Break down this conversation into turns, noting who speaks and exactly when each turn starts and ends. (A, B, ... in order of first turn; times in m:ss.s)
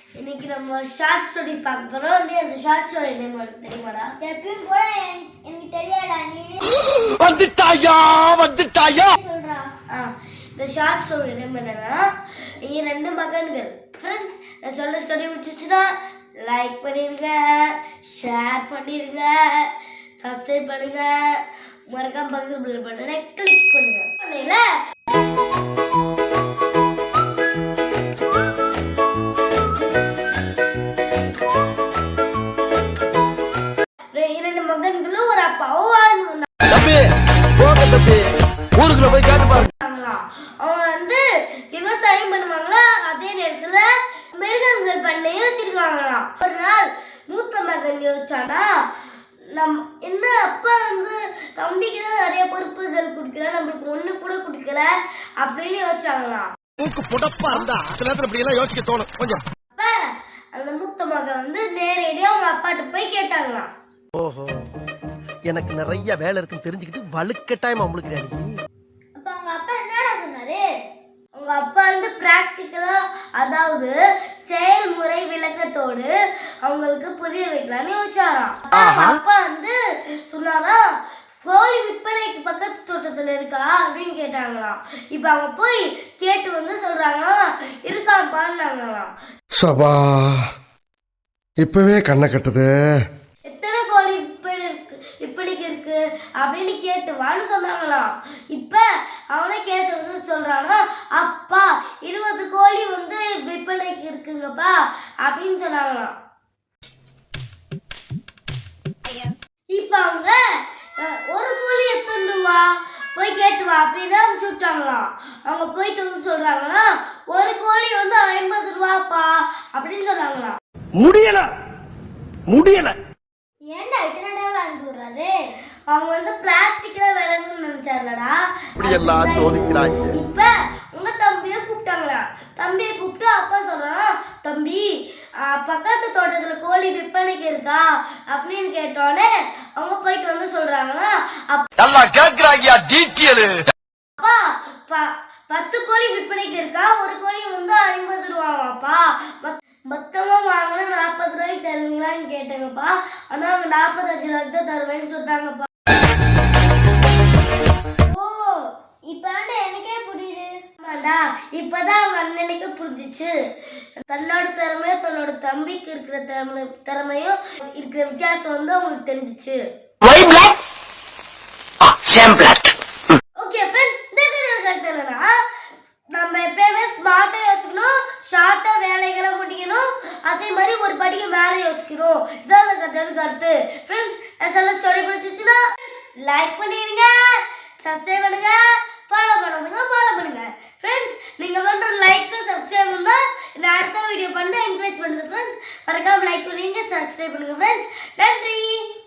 0:00.2-0:04.1 A
0:04.2-0:06.6 B
0:06.8-0:09.2 C
0:09.0-0:09.7 B
0:09.9-0:12.1 A
0:12.6-0:24.7 A
0:34.1-0:36.5 A
0:36.7-0:37.0 C
0:37.6-0:38.2 C
0:39.0-0:39.7 C
0:39.8-0:41.2 A
0:41.7-0:48.8 A
0:49.5-0:54.9 A
0:55.4-0:56.5 A
0:56.8-0:59.4 C
0:59.7-1:03.7 A
1:04.2-1:04.6 D
1:05.5-1:08.5 D
1:09.2-1:10.6 B
1:11.3-1:13.9 A
1:14.4-1:16.1 A
1:16.6-1:20.8 A
1:21.4-1:29.1 A
1:29.6-1:30.4 E
1:31.6-1:32.9 E
1:33.4-1:46.1 A
1:49.7-1:50.4 A
1:51.0-2:00.6 A
2:01.0-2:01.4 C
2:02.5-2:02.9 C
2:03.7-2:05.3 B
2:05.9-2:14.9 A
2:08.8-2:10.2 D
2:15.4-2:21.7 A
2:21.8-2:23.6 C
2:24.2-2:35.7 A
2:38.1-2:40.5 B
2:40.8-2:43.3 A
2:44.0-2:49.6 A
2:50.0-2:50.6 C
2:51.9-2:52.7 C
2:53.4-2:55.3 A
2:56.1-3:18.8 A